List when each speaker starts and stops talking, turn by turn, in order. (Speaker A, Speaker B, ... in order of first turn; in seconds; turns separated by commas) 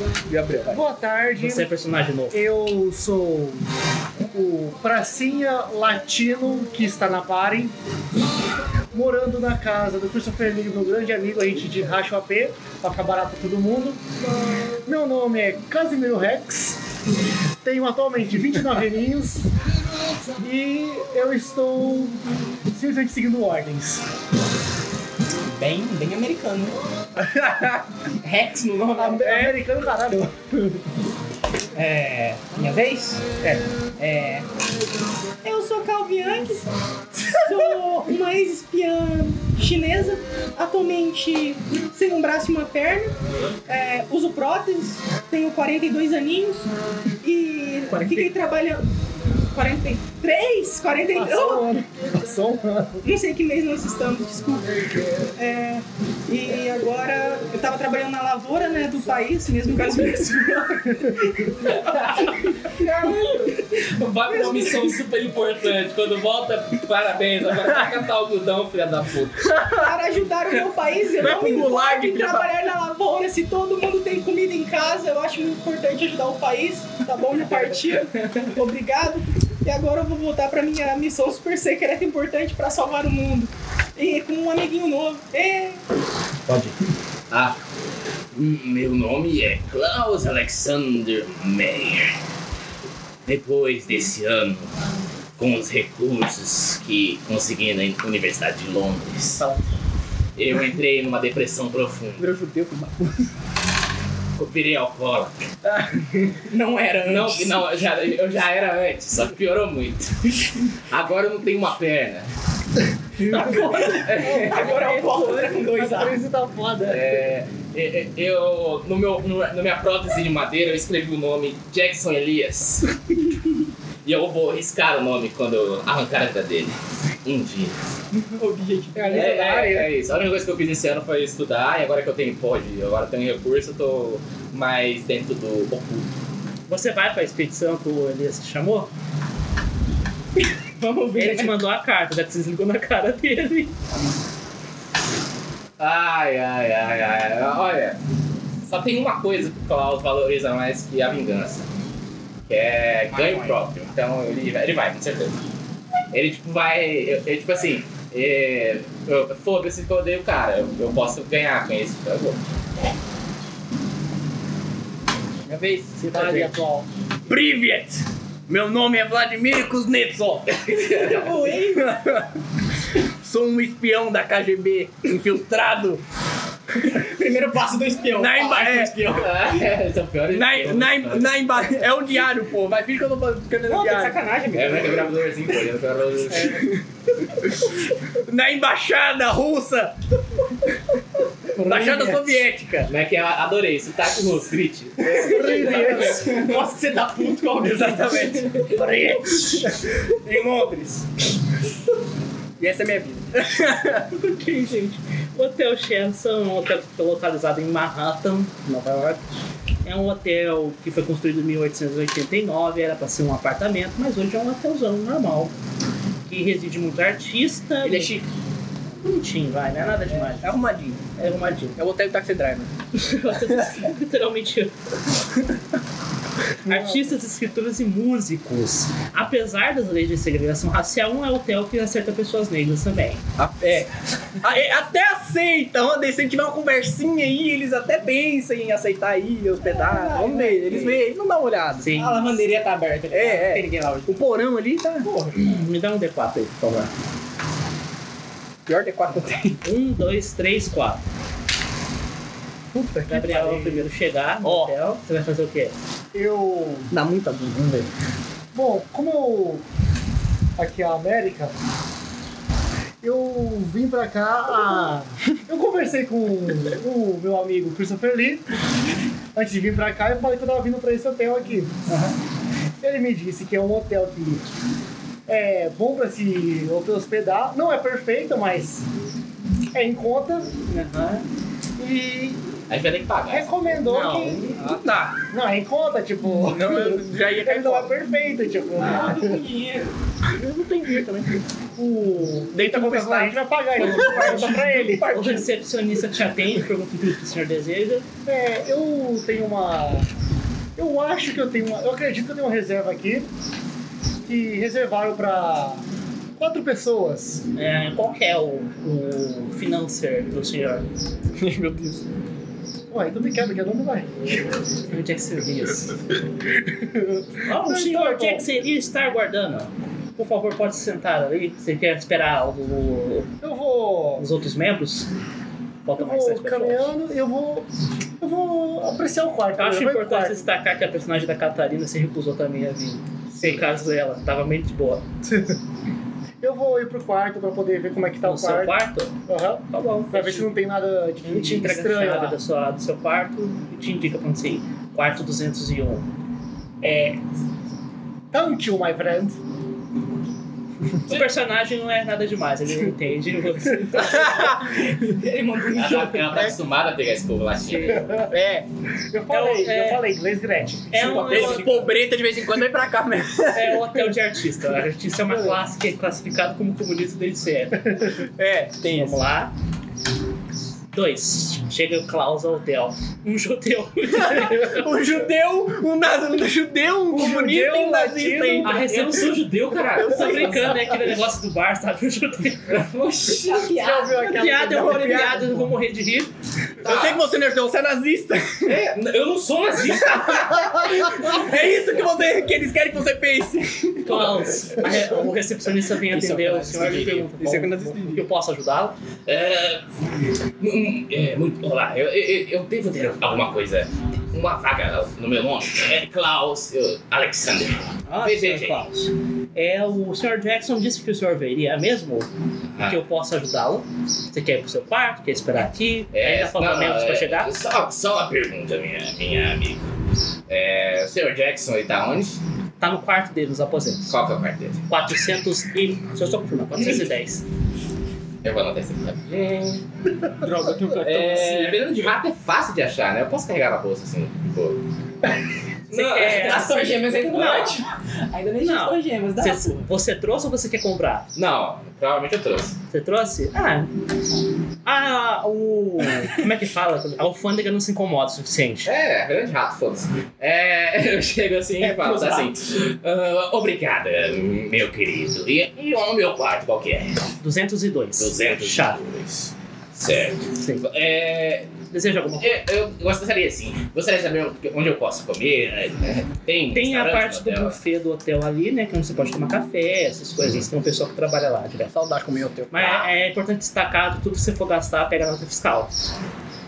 Speaker A: 0.3-0.8, Speaker B: 0.7-1.7, Speaker C: 1.4-2.4, Speaker B: 2.3-3.6, Speaker B: 4.3-7.7, Speaker B: 8.9-14.0, Speaker B: 14.9-16.8, Speaker B: 17.6-19.5, Speaker B: 20.4-24.0, Speaker D: 25.5-26.8, Speaker A: 27.2-27.8, Speaker D: 28.2-29.4, Speaker B: 28.9-30.7, Speaker A: 29.2-29.6, Speaker D: 31.7-33.3, Speaker D: 34.0-34.5, Speaker D: 35.4-36.7, Speaker D: 37.3-43.1, Speaker D: 43.7-46.7, Speaker D: 47.2-48.8, Speaker D: 49.5-51.7, Speaker B: 51.1-53.1, Speaker D: 53.0-63.6, Speaker E: 61.6-69.5, Speaker D: 64.3-64.9, Speaker A: 69.5-69.9, Speaker D: 69.6-85.8, Speaker A: 71.2-72.5, Speaker E: 87.3-87.6, Speaker E: 88.3-92.2, Speaker E: 93.3-94.7, Speaker E: 95.4-99.4, Speaker E: 100.4-102.2, Speaker A: 102.2-103.2, Speaker E: 104.4-105.4, Speaker A: 105.7-106.0, Speaker D: 106.4-107.6, Speaker E: 107.0-112.3, Speaker C: 113.2-115.6, Speaker D: 113.3-116.2, Speaker E: 114.1-114.7, Speaker B: 115.6-117.3, Speaker E: 116.8-123.0, Speaker E: 124.0-127.7, Speaker D: 128.1-129.6, Speaker B: 128.9-129.9, Speaker E: 129.0-136.1, Speaker C: 136.7-138.9, Speaker D: 140.8-141.6, Speaker C: 141.2-143.7, Speaker E: 145.8-148.0, Speaker E: 148.7-151.7, Speaker E: 152.5-155.4, Speaker D: 153.2-153.5, Speaker E: 156.1-162.4, Speaker A: 165.5-166.5, Speaker C: 166.0-166.6, Speaker B: 166.1-166.9, Speaker A: 167.3-170.6, Speaker E: 170.7-171.3, Speaker D: 170.9-171.9, Speaker A: 171.7-172.3, Speaker A: 173.2-176.0, Speaker D: 176.8-179.3, Speaker A: 178.1-179.3, Speaker E: 179.0-181.3, Speaker A: 180.3-184.2, Speaker D: 183.6-185.1, Speaker E: 184.5-186.8, Speaker A: 188.2-189.9, Speaker B: 191.5-192.4, Speaker A: 191.6-192.9, Speaker E: 192.9-196.4, Speaker A: 195.0-201.1, Speaker B: 195.1-196.4, Speaker D: 195.5-198.7, Speaker A: 202.6-204.1, Speaker C: 204.1-209.2, Speaker C: 209.8-215.5, Speaker C: 216.2-218.1, Speaker A: 217.8-218.3, Speaker C: 219.0-220.6, Speaker A: 220.3-221.0, Speaker C: 221.2-221.8, Speaker A: 221.8-222.7, Speaker C: 222.9-224.7, Speaker C: 226.7-233.2, Speaker A: 233.4-241.9, Speaker D: 239.6-241.0, Speaker C: 241.8-242.3, Speaker D: 241.9-244.3, Speaker A: 243.1-245.1, Speaker D: 245.0-245.3, Speaker C: 245.4-246.9, Speaker A: 248.7-249.6, Speaker C: 249.6-251.0, Speaker B: 252.7-253.9, Speaker C: 253.1-255.7, Speaker A: 254.4-254.7, Speaker B: 256.1-256.9, Speaker A: 256.9-257.9, Speaker B: 258.5-259.6, Speaker B: 260.6-261.5, Speaker B: 263.0-268.4, Speaker B: 269.4-271.8, Speaker B: 272.8-274.4, Speaker B: 275.3-278.9, Speaker B: 279.7-280.5, Speaker C: 280.7-281.2, Speaker B: 281.8-282.6, Speaker E: 282.7-283.8, Speaker B: 283.3-284.5, Speaker C: 283.9-284.6, Speaker A: 284.6-285.2, Speaker B: 285.3-289.4, Speaker A: 286.4-287.9, Speaker D: 288.8-289.9, Speaker C: 290.3-291.3, Speaker B: 291.8-295.2, Speaker A: 292.5-295.5, Speaker C: 293.8-298.1, Speaker B: 298.3-300.1, Speaker B: 300.8-303.3, Speaker B: 304.2-305.8, Speaker B: 306.4-307.4, Speaker C: 307.6-310.9, Speaker A: 311.4-312.0, Speaker B: 312.9-314.2, Speaker C: 314.9-316.0, Speaker C: 317.4-323.3, Speaker B: 317.6-318.4, Speaker B: 323.4-324.3, Speaker C: 324.2-325.1, Speaker C: 325.9-326.9, Speaker B: 326.0-327.7, Speaker B: 328.2-330.5, Speaker C: 329.6-335.0, Speaker B: 335.2-335.6, Speaker B: 336.4-338.8, Speaker C: 338.2-339.1, Speaker B: 339.3-342.4, Speaker C: 339.7-340.5, Speaker C: 341.2-346.1, Speaker B: 346.8-347.2, Speaker B: 348.3-349.4, Speaker C: 351.1-354.6, Speaker E: 351.1-351.3, Speaker A: 354.0-354.5, Speaker D: 354.2-356.5, Speaker E: 355.7-358.1, Speaker C: 357.7-358.1, Speaker B: 357.8-358.4, Speaker A: 358.3-358.7, Speaker B: 359.1-361.5, Speaker C: 359.3-360.1, Speaker C: 360.9-361.9, Speaker A: 360.9-364.0, Speaker D: 361.1-361.8, Speaker C: 363.5-368.1, Speaker B: 365.3-365.6, Speaker A: 368.4-369.2, Speaker C: 368.9-369.5, Speaker C: 370.9-375.0, Speaker A: 374.2-379.1, Speaker B: 377.1-378.9, Speaker C: 378.6-382.8, Speaker E: 378.7-380.8, Speaker A: 380.0-380.8, Speaker E: 382.7-383.7, Speaker D: 383.3-385.1, Speaker B: 383.7-385.8, Speaker C: 384.3-386.3, Speaker E: 386.8-387.2, Speaker A: 386.8-388.9, Speaker E: 388.6-391.3, Speaker A: 390.5-394.5, Speaker C: 394.1-398.9, Speaker A: 396.1-398.3, Speaker E: 399.3-399.8, Speaker E: 400.6-408.9, Speaker C: 408.1-412.3, Speaker E: 412.7-413.0, Speaker C: 412.8-417.5, Speaker E: 416.1-419.9, Speaker E: 420.5-422.4, Speaker C: 422.8-424.1, Speaker E: 424.1-424.8, Speaker C: 424.9-427.4, Speaker E: 428.4-429.8, Speaker A: 430.4-431.8, Speaker E: 430.8-434.8, Speaker C: 435.9-437.8, Speaker E: 435.9-437.6, Speaker D: 436.2-439.9, Speaker C: 438.6-441.3, Speaker E: 441.4-442.8, Speaker C: 442.9-443.9, Speaker C: 444.9-448.9, Speaker E: 448.9-457.2, Speaker D: 451.8-452.5, Speaker C: 457.4-459.0, Speaker E: 458.2-461.7, Speaker C: 460.6-460.9, Speaker C: 461.9-462.6, Speaker E: 462.4-467.8, Speaker C: 466.7-471.9, Speaker A: 471.9-473.0, Speaker C: 472.7-475.9, Speaker E: 472.7-473.1